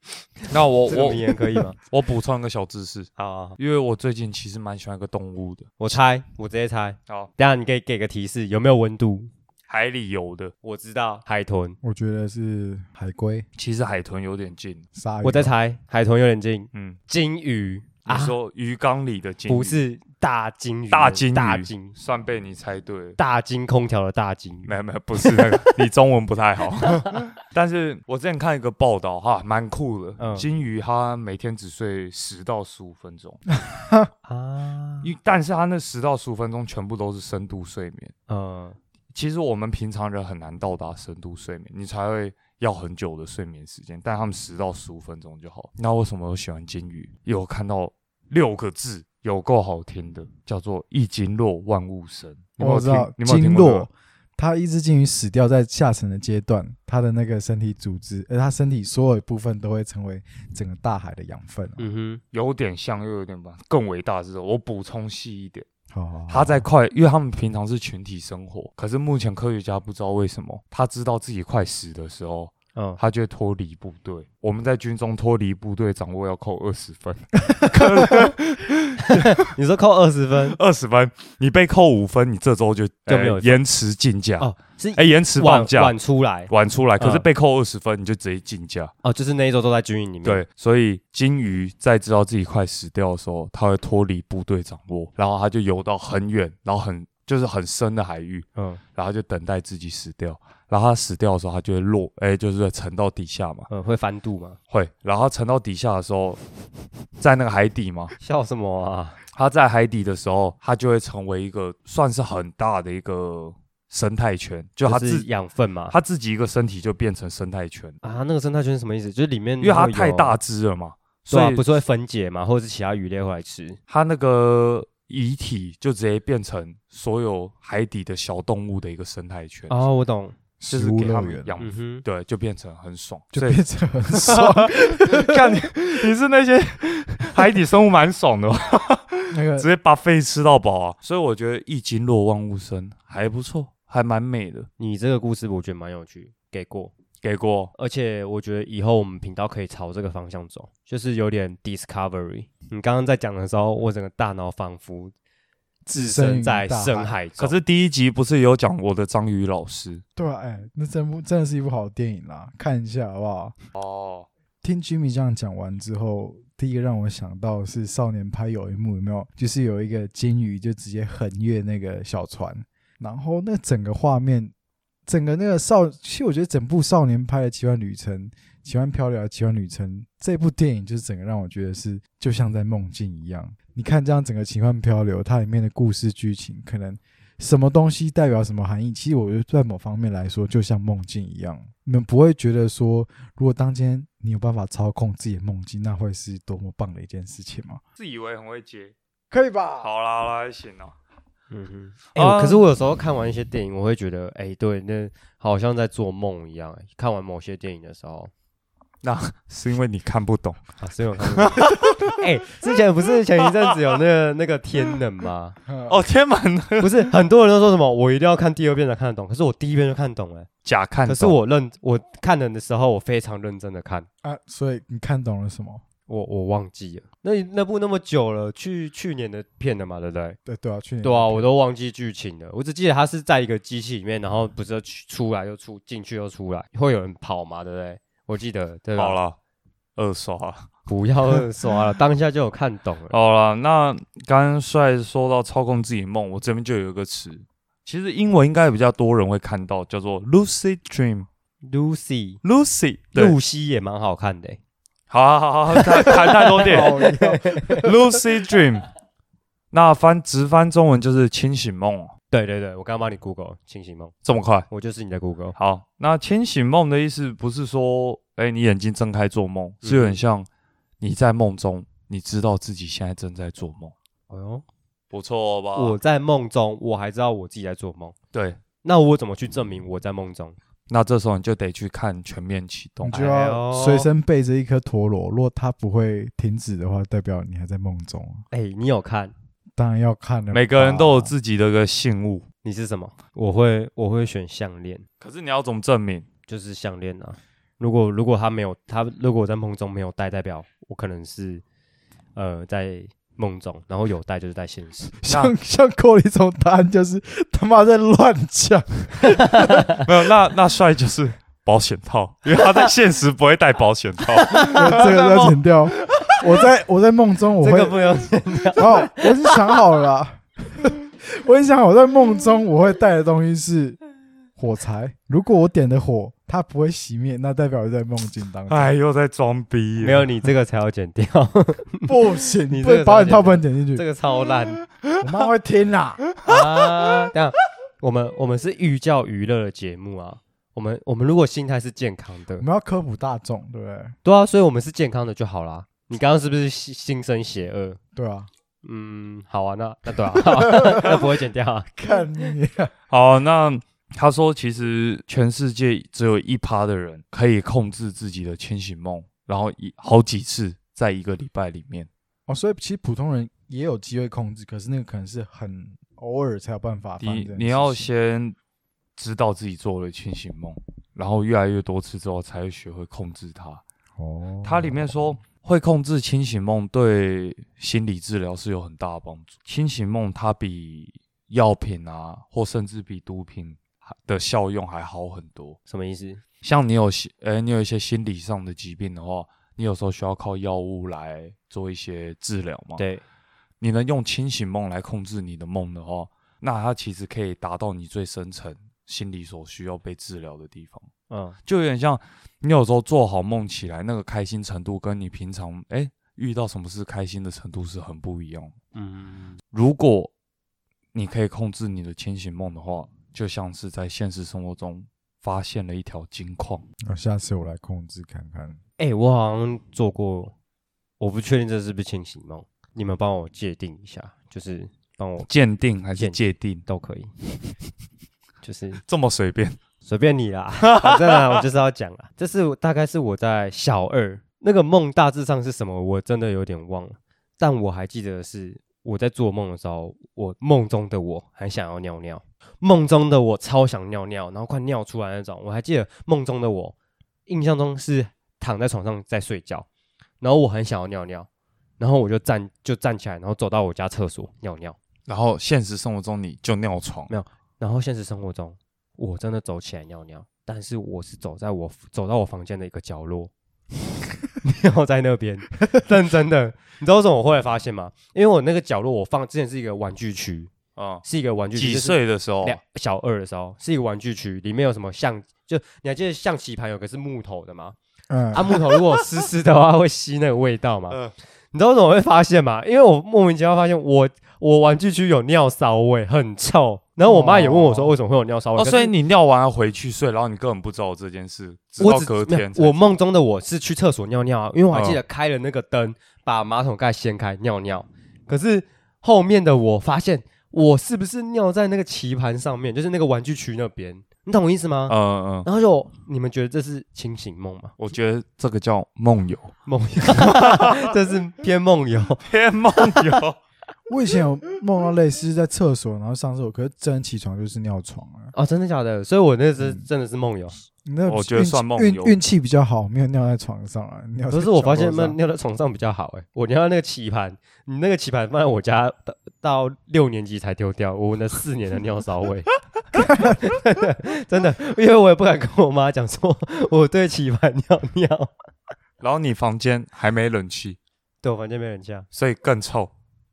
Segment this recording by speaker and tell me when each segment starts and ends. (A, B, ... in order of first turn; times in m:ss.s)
0:00.4-0:06.0 A
0:00.9-0:01.8 B
0:03.2-0:03.6 B
0:05.8-0:09.3 B
0:09.7-0:10.5 A
0:10.6-0:11.8 B
0:11.8-0:13.5 C
0:13.6-0:14.8 A
0:14.9-0:15.5 C
0:15.2-0:18.4 B
0:16.7-0:17.0 A
0:18.1-0:19.8 A
0:19.5-0:22.0 B
0:20.9-0:23.2 A
0:23.2-0:25.7 B
0:24.7-0:33.4 A
0:26.8-0:27.2 B
0:30.2-0:30.5 B
0:33.7-0:34.1 C
0:34.2-0:35.1 B
0:35.0-0:38.1 A
0:38.3-0:38.8 B
0:39.1-0:53.9 A
0:52.6-1:01.9 C
1:01.8-1:02.2 B
1:02.3-1:05.7 A
1:05.9-1:06.7 C
1:06.3-1:19.5 A
1:12.8-1:13.0 B
1:19.0-1:20.6 B
1:20.5-1:26.0 A
1:23.1-1:23.6 B
1:24.4-1:27.3 B
1:26.5-1:28.9 A
1:29.0-1:30.4 B
1:30.2-1:43.7 A
1:38.6-1:38.8 B
1:43.7-1:44.6 B
1:44.7-1:46.4 A
1:47.2-1:48.2 A
1:48.2-1:49.2 B
1:49.3-1:55.3 A
1:54.8-1:56.0 B
1:55.9-1:58.0 A
1:58.0-2:00.4 B
1:59.6-2:01.7 A
2:01.3-2:03.8 B
2:03.9-2:09.9 A
2:09.7-2:10.4 B
2:10.6-2:11.5 C
2:10.7-2:24.7 A
2:11.6-2:12.0 B
2:13.3-2:15.7 C
2:19.3-2:19.7 C
2:24.8-2:26.9 B
2:27.2-2:27.7 A
2:27.8-2:35.1 B
2:35.9-2:37.2 C
2:35.9-2:37.6 B
2:37.4-2:40.0 A
2:40.2-2:43.6 C
2:43.8-2:44.3 A
2:44.6-2:54.5 C
2:55.1-3:17.8 C
3:18.0-3:18.9 A
3:19.3-3:19.9 C
3:19.8-3:20.9 A
3:21.5-3:28.3 B
3:22.2-3:22.6 A
3:29.0-3:30.6 A
3:30.8-3:35.6 B
3:31.2-3:32.2 A
3:33.5-3:33.7 A
3:35.7-3:36.0 C
3:35.9-3:37.1 A
3:36.8-3:40.5 B
3:40.6-3:41.4 A
3:41.1-3:44.1 B
3:44.2-3:45.8 C
3:46.1-3:50.4 B
3:50.4-3:51.5 C
3:51.0-3:59.2 B
3:59.0-3:59.4 A
4:00.0-4:00.7 A
4:00.9-4:03.2 B
4:03.1-4:11.3 A
4:11.6-4:12.4 B
4:12.4-4:13.4 A
4:13.1-4:14.6 B
4:15.1-4:17.0 A
4:15.7-4:17.9 B
4:16.6-4:17.9 C
4:17.8-4:18.9 A
4:19.7-4:22.1 A
4:22.3-4:24.1 B
4:24.2-4:24.7 A
4:24.7-4:25.6 B
4:25.6-4:30.5 A
4:29.8-4:30.2 B
4:31.0-4:33.9 A
4:34.3-4:34.6 B
4:35.1-4:36.0 A
4:35.8-4:38.2 B
4:38.3-4:38.6 A
4:38.8-4:40.6 B
4:40.9-4:43.2 A
4:43.0-4:48.4 C
4:43.1-4:44.1 B
4:48.5-4:49.3 B
4:49.8-4:51.3 C
4:50.5-4:52.5 A
4:52.6-4:55.1 B
4:55.2-4:56.3 A
4:56.5-5:01.6 B
5:02.4-5:05.2 B
5:05.2-5:10.0 C
5:05.3-5:05.5 A
5:09.4-5:10.0 B
5:10.0-5:16.3 A
5:12.6-5:12.9 B
5:14.4-5:14.9 B
5:14.7-5:18.1 C
5:17.6-5:19.5 B
5:18.8-5:24.0 C
5:24.6-5:28.9 C
5:28.7-5:30.5 A
5:30.0-5:32.2 B
5:32.0-5:34.0 C
5:32.7-5:34.8 B
5:35.2-5:36.2 C
5:36.4-5:37.3 A
5:36.4-5:42.6 B
5:42.6-5:44.2 C
5:44.2-5:48.0 B
5:48.2-5:48.5 C
5:48.8-5:51.9 B
5:50.5-5:51.2 C
5:52.0-5:52.9 C
5:53.1-6:02.1 A
6:02.5-6:08.1 C
6:07.2-6:08.6 A
6:09.2-6:13.8 A
6:14.2-6:15.4 C
6:14.6-6:25.8 A
6:25.9-6:26.4 B
6:26.6-6:33.1 A
6:33.0-6:33.2 B
6:33.8-6:41.1 A
6:41.3-6:41.6 B
6:41.7-6:48.7 A
6:49.0-6:49.6 B
6:49.7-6:50.3 A
6:51.1-6:56.8 A
6:57.1-6:58.8 C
6:59.0-7:00.5 B
7:01.2-7:05.5 B
7:05.5-7:06.8 A
7:06.2-7:07.3 B
7:08.6-7:09.0 B
7:09.1-7:09.8 A
7:10.0-7:27.0 B
7:10.8-7:11.6 A
7:27.5-7:29.9 B
7:30.4-7:31.5 B
7:32.0-7:35.0 B
7:35.3-7:37.3 A
7:37.3-7:43.5 B
7:44.6-7:50.7 B
7:51.0-7:52.8 A
7:51.2-7:58.0 B
7:58.3-7:58.7 C
7:58.5-8:01.2 B
8:01.7-8:09.1 B
8:07.6-8:07.8 C
8:08.8-8:13.2 A
8:12.0-8:28.0 B
8:14.9-8:15.2 A
8:25.1-8:25.7 A
8:28.0-8:29.8 A
8:29.9-8:32.4 B
8:30.3-8:31.1 A
8:32.4-8:33.6 A
8:34.1-8:38.5 C
8:38.5-8:40.8 B
8:41.1-8:45.4 C
8:41.3-8:42.4 A
8:44.5-8:58.5 B
8:59.2-9:01.0 A
9:01.4-9:02.3 B
9:02.3-9:03.1 A